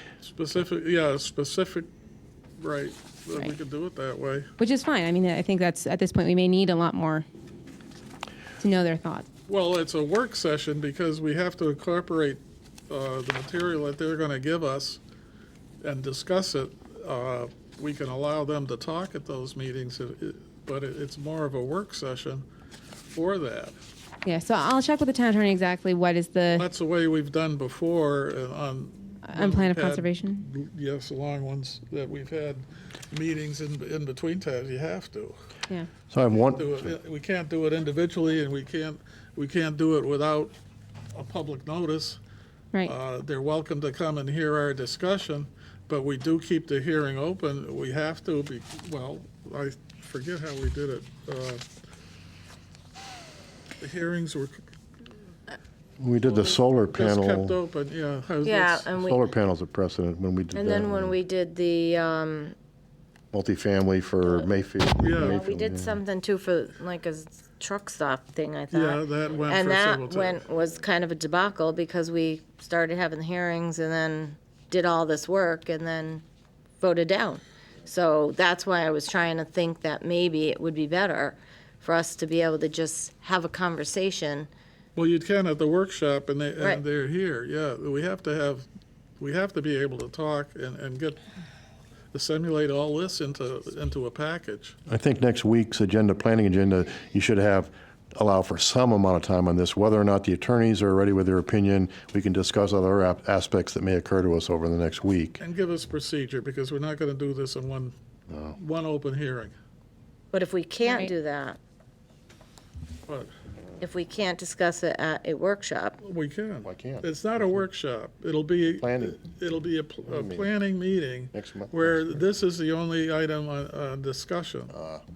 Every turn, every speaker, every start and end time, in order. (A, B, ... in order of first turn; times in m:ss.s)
0:00.2-0:01.9 A
0:02.6-0:04.5 A
0:04.6-0:07.2 B
0:08.6-0:09.3 B
0:09.5-0:15.0 A
0:15.8-0:22.4 A
0:23.1-0:23.8 A
0:24.2-0:26.7 B
0:26.6-0:35.4 A
0:29.2-0:30.4 B
0:36.1-0:36.9 C
0:36.4-0:40.5 A
0:41.1-0:42.2 A
0:42.8-0:51.6 A
0:53.8-0:54.6 A
0:56.0-0:57.6 C
0:56.2-0:58.9 A
0:58.4-0:59.2 D
0:58.9-1:01.1 C
1:00.5-1:02.6 D
1:03.3-1:06.0 C
1:05.0-1:05.4 A
1:05.2-1:16.2 D
1:08.7-1:10.5 A
1:16.8-1:24.5 D
1:25.0-1:28.7 A
1:29.2-1:31.2 A
1:32.1-1:34.8 A
1:34.9-1:45.4 C
1:45.4-1:47.9 A
1:48.3-1:48.5 C
1:48.5-1:49.5 A
1:50.3-1:51.6 D
1:50.8-1:51.1 B
1:53.8-1:56.0 D
1:56.0-2:04.7 A
1:56.6-1:57.1 C
1:58.7-1:59.2 C
2:00.1-2:00.5 C
2:01.3-2:02.1 C
2:04.7-2:05.0 C